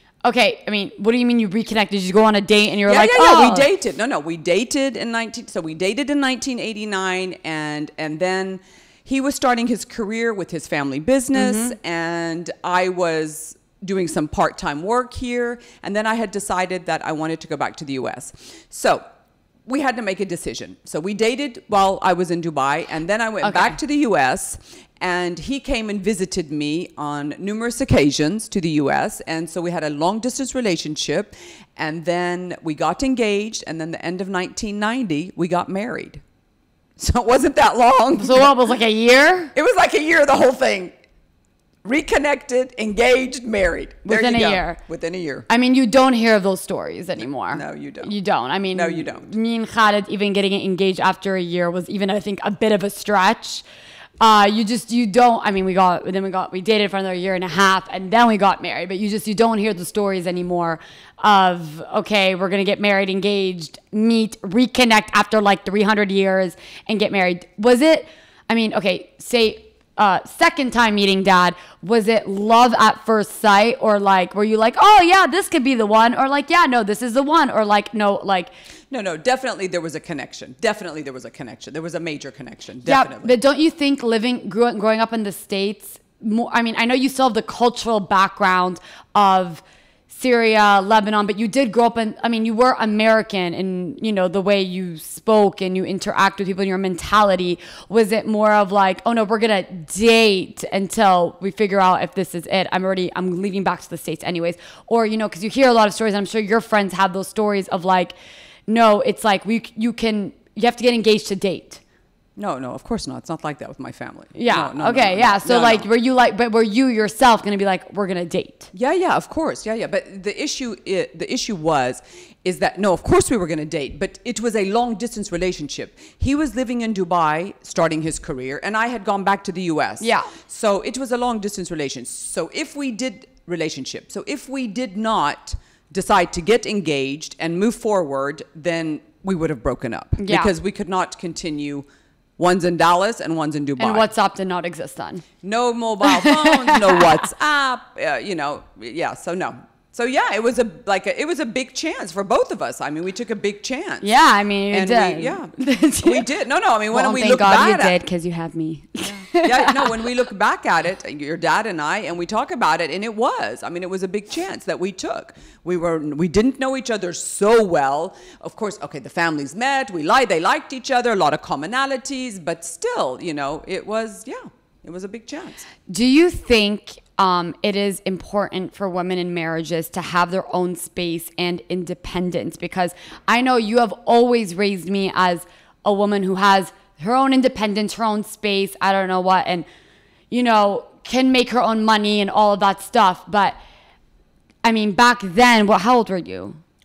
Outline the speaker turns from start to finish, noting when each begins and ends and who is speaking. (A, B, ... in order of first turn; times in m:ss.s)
0:00.2-0:03.7 A
0:02.9-0:19.0 B
0:11.3-0:11.8 A
0:19.6-0:36.2 B
0:23.4-0:23.8 A
0:37.0-0:38.5 B
0:38.2-0:39.5 A
0:39.5-0:40.9 B
0:41.8-0:45.5 B
0:44.0-0:44.8 A
0:45.5-0:53.6 A
0:47.5-0:48.1 B
0:48.7-0:49.3 B
0:54.2-1:18.5 A
1:18.9-1:23.3 B
1:22.8-1:48.2 A
1:48.7-1:51.8 A
1:52.4-1:55.9 B
1:54.3-1:58.7 A
1:58.7-2:21.8 B
2:10.0-2:10.3 A
2:20.2-2:20.5 A
2:22.4-2:24.1 B
2:23.8-2:25.2 A
2:25.4-2:34.0 B
2:26.0-2:27.3 A
2:34.0-2:36.2 A
2:34.7-2:35.5 B
2:36.0-2:38.0 B
2:36.9-2:40.0 A
2:39.0-2:55.7 B
2:55.9-3:09.6 A
3:10.3-3:13.6 A
3:14.6-3:16.6 A